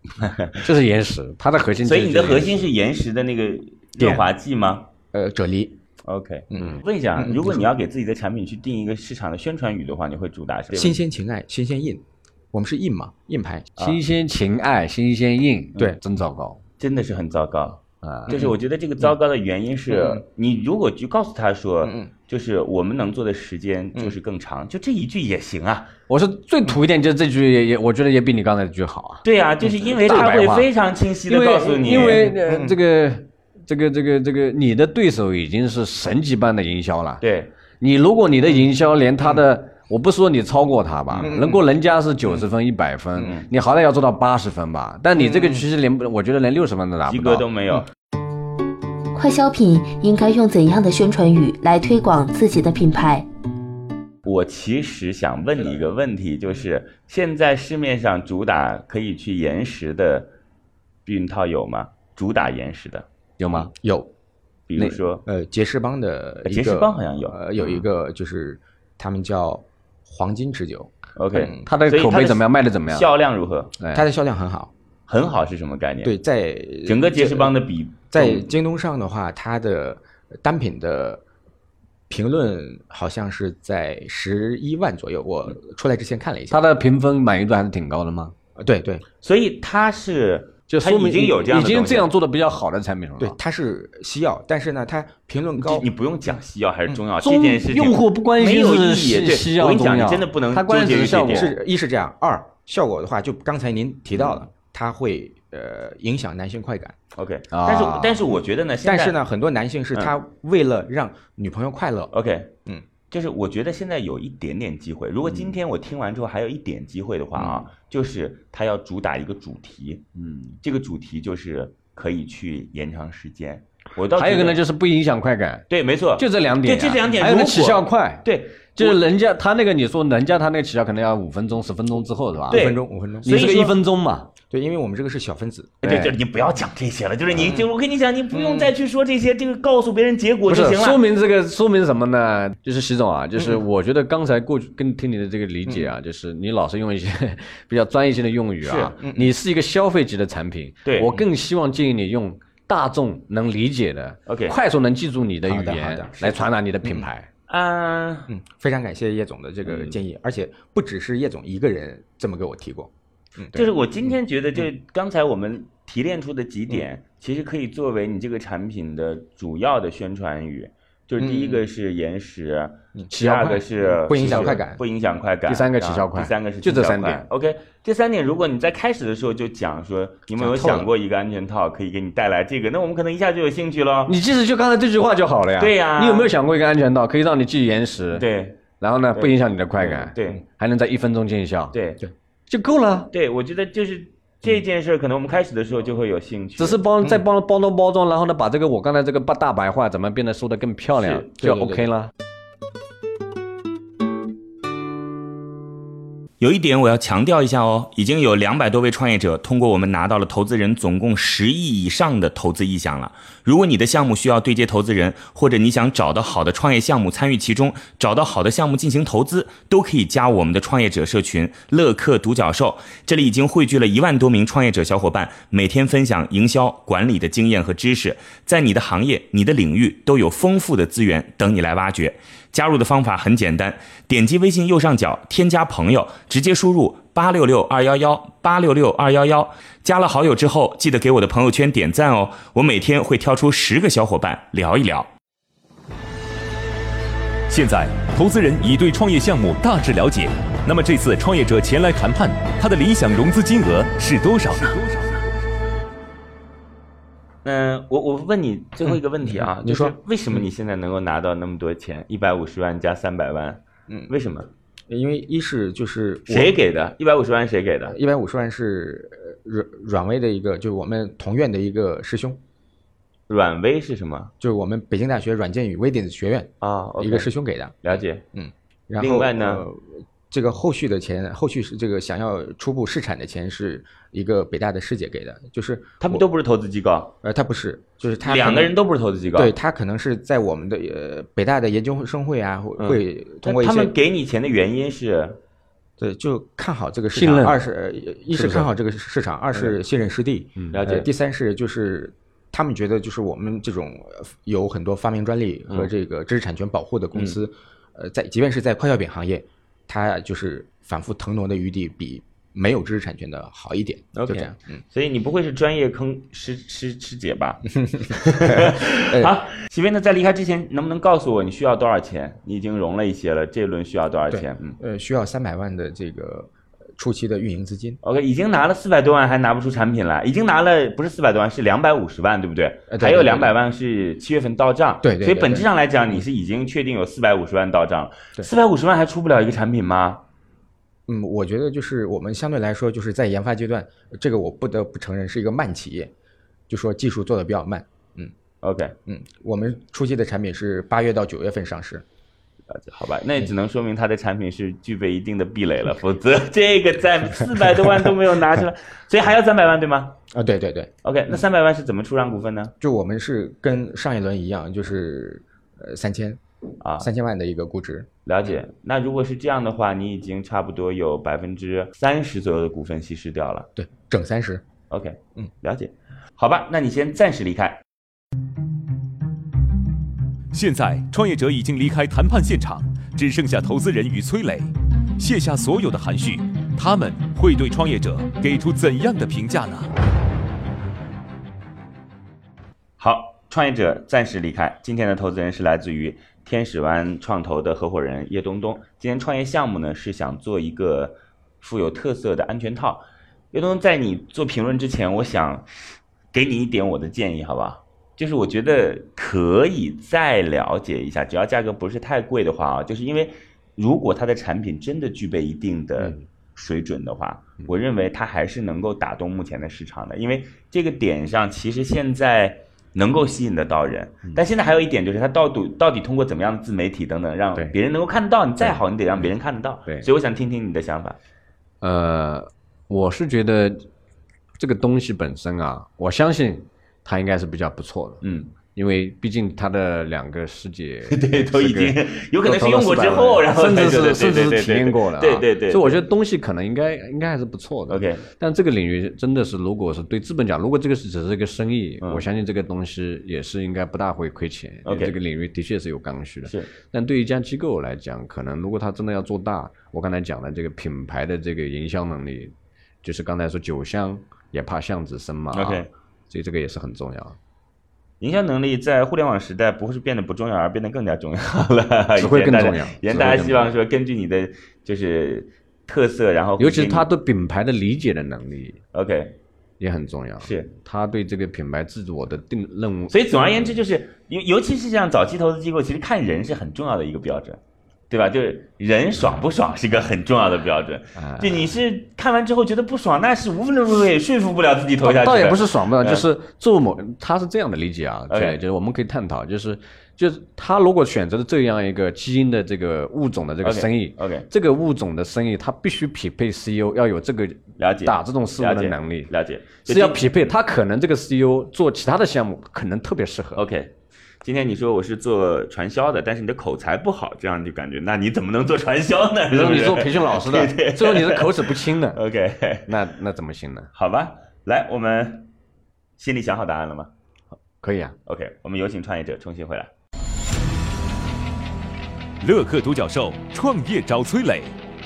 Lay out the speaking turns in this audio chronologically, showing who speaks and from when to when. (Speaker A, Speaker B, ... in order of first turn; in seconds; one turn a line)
Speaker A: 0.2-0.5
Speaker B: 0.6-2.7
Speaker A: 1.8-4.9
Speaker C: 5.1-5.8
Speaker A: 6.0-11.0
Speaker C: 6.5-7.7
Speaker C: 10.7-13.7
Speaker B: 13.8-16.6
Speaker A: 16.8-25.9
Speaker B: 18.0-18.3
Speaker C: 19.9-20.2
Speaker C: 21.8-22.1
Speaker B: 26.1-29.2
Speaker A: 29.2-32.3
Speaker B: 30.0-30.7
Speaker B: 31.3-37.2
Speaker C: 31.9-32.8
Speaker A: 37.2-37.5
Speaker B: 37.8-47.4
Speaker C: 41.2-41.6
Speaker C: 45.2-45.6
Speaker A: 47.1-47.9
Speaker D: 49.1-53.2
Speaker A: 54.2-60.3
Speaker A: 61.0-63.0
Speaker B: 63.4-63.7
Speaker C: 63.8-64.1
Speaker A: 64.7-65.2
Speaker C: 65.2-71.6
Speaker A: 66.4-67.3
Speaker A: 71.2-73.7
Speaker B: 71.7-73.1
Speaker B: 73.8-74.0
Speaker C: 73.9-74.7
Speaker A: 75.1-76.1
Speaker C: 76.0-77.5
Speaker A: 76.8-78.5
Speaker C: 78.1-81.2
Speaker C: 82.1-86.6
Speaker B: 86.5-88.3
Speaker C: 88.6-89.0
Speaker A: 89.2-92.1
Speaker B: 90.7-93.3
Speaker C: 93.2-95.8
Speaker A: 95.6-101.5
Speaker B: 97.2-101.5
Speaker C: 101.2-107.0
Speaker A: 107.2-109.2
Speaker B: 107.5-108.2
Speaker C: 108.8-112.1
Speaker A: 112.1-112.5
Speaker A: 113.1-120.0
Speaker C: 117.3-117.6
Speaker B: 120.2-120.5
Speaker A: 120.6-124.6
Speaker B: 124.1-125.6
Speaker A: 125.7-129.0
Speaker B: 126.2-128.2
Speaker B: 128.8-132.6
Speaker C: 132.5-133.4
Speaker A: 132.5-133.8
Speaker B: 133.2-134.3
Speaker C: 134.5-135.8
Speaker A: 135.8-141.0
Speaker B: 135.8-136.1
Speaker C: 137.3-137.7
Speaker C: 138.3-138.7
Speaker B: 140.5-157.3
Speaker A: 148.6-148.9
Speaker C: 149.0-149.3
Speaker A: 150.8-151.2
Speaker A: 154.3-154.6
Speaker C: 155.5-157.1
Speaker A: 157.5-158.3
Speaker C: 158.3-163.7
Speaker A: 163.5-184.1
Speaker C: 171.2-171.6
Speaker B: 173.1-174.6
Speaker C: 174.0-174.8
Speaker B: 175.5-177.2
Speaker C: 180.4-180.8
Speaker B: 184.1-188.2
Speaker A: 185.6-186.3
Speaker A: 188.1-188.6
Speaker B: 188.8-191.7
Speaker A: 189.1-190.4
Speaker A: 191.7-192.0
Speaker B: 192.5-193.1
Speaker A: 193.1-196.8
Speaker B: 196.6-202.1
Speaker A: 200.9-201.2
Speaker C: 201.4-201.9
Speaker E: 206.4-245.1
Speaker F: 247.5-254.8
Speaker A: 257.4-264.5
Speaker C: 259.5-259.9
Speaker C: 264.9-266.5
Speaker A: 266.3-267.9
Speaker C: 267.9-272.4
Speaker A: 273.3-274.3
Speaker C: 274.4-286.2
Speaker A: 276.6-277.3
Speaker A: 277.8-278.2
Speaker A: 279.0-279.6
Speaker A: 286.0-287.1
Speaker C: 287.2-288.7
Speaker A: 288.2-289.5
Speaker C: 289.3-293.9
Speaker A: 292.8-295.4
Speaker C: 296.0-314.8
Speaker B: 297.1-297.6
Speaker B: 298.3-298.7
Speaker A: 300.7-301.1
Speaker A: 314.1-324.8
Speaker C: 317.8-319.3
Speaker C: 324.3-328.0
Speaker A: 328.0-340.2
Speaker C: 332.9-333.5
Speaker C: 335.0-336.2
Speaker C: 341.1-346.1
Speaker C: 346.7-348.3
Speaker A: 348.6-348.9
Speaker C: 349.1-352.0
Speaker A: 352.7-360.1
Speaker C: 360.3-360.9
Speaker A: 361.0-362.7
Speaker C: 362.8-366.4
Speaker A: 366.8-367.1
Speaker C: 367.0-368.1
Speaker A: 368.2-373.7
Speaker C: 373.8-374.6
Speaker A: 374.9-377.8
Speaker F: 380.5-389.9
Speaker A: 393.0-405.6
Speaker A: 406.3-431.2
Speaker B: 428.6-429.3
Speaker B: 431.8-433.9
Speaker B: 434.6-438.2
Speaker A: 438.2-438.5
Speaker B: 438.7-462.5
Speaker A: 441.1-446.0
Speaker A: 447.9-448.2
Speaker A: 454.9-455.1
Speaker B: 463.0-467.4
Speaker A: 465.5-465.9
Speaker A: 468.2-477.1
Speaker B: 472.2-473.7
Speaker B: 476.6-478.8
Speaker A: 478.9-479.4
Speaker B: 479.8-483.7
Speaker A: 480.4-480.7
Speaker A: 483.1-487.6
Speaker A: 488.1-496.2
Speaker B: 489.2-489.4
Speaker B: 491.2-491.8
Speaker B: 495.0-509.3
Speaker A: 498.3-498.6
Speaker A: 503.6-504.5
Speaker A: 507.8-510.3
Speaker B: 509.9-513.6
Speaker A: 513.5-522.9
Speaker B: 519.5-522.2
Speaker B: 522.9-523.9
Speaker A: 523.9-525.5
Speaker A: 526.2-527.1
Speaker B: 527.8-528.1
Speaker A: 528.2-529.9
Speaker F: 532.4-534.7